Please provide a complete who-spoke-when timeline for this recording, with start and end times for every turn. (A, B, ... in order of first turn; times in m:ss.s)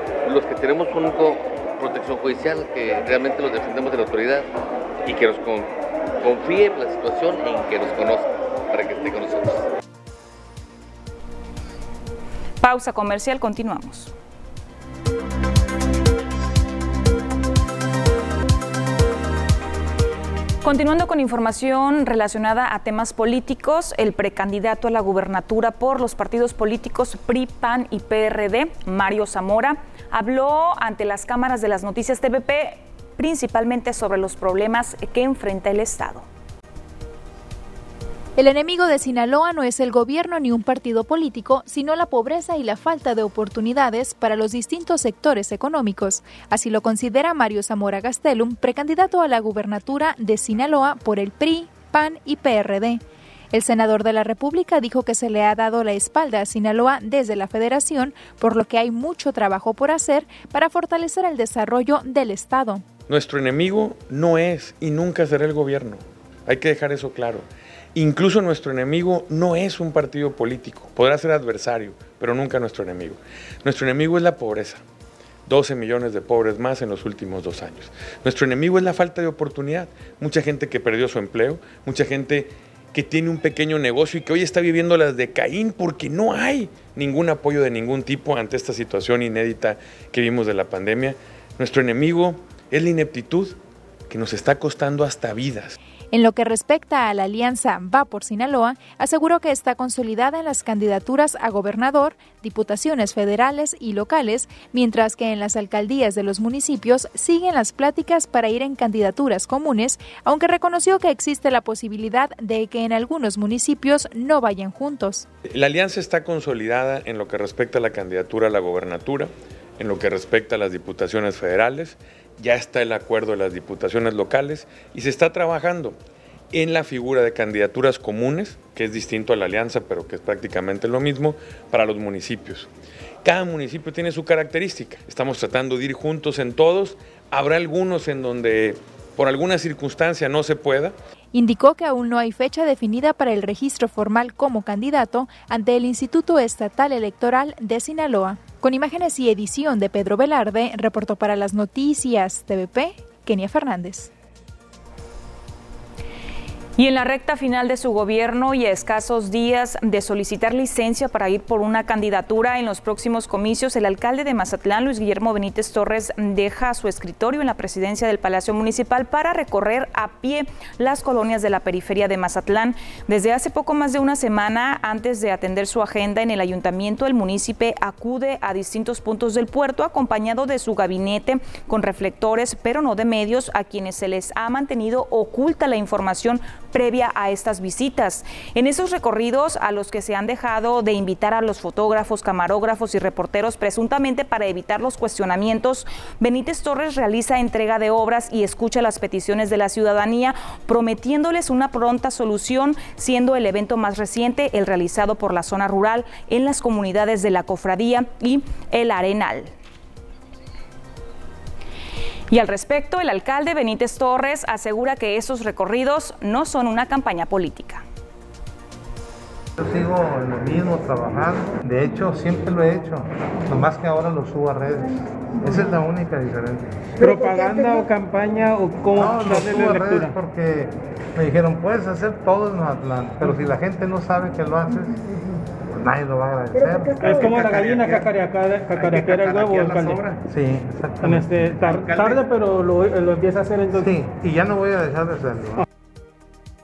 0:00.2-0:04.5 A
0:05.0-0:09.7 A
0:12.6-0:14.1 B
0:20.6-0:36.3 B
0:38.4-1:02.9 C
1:03.1-1:14.8 D
1:15.5-1:33.6 D
1:34.1-1:35.8 D
1:36.1-1:55.3 C
1:55.5-2:06.0 D
2:06.5-2:12.7 D
2:13.2-2:21.0 D
2:21.3-2:34.1 C
2:36.8-3:29.5 B
3:32.3-3:37.8 B
3:39.6-3:47.6 E
3:47.0-3:50.2 F
3:49.0-3:55.0 E
3:55.7-4:02.3 E
3:57.0-4:00.1 F
4:01.0-4:04.0 F
4:03.7-4:05.6 E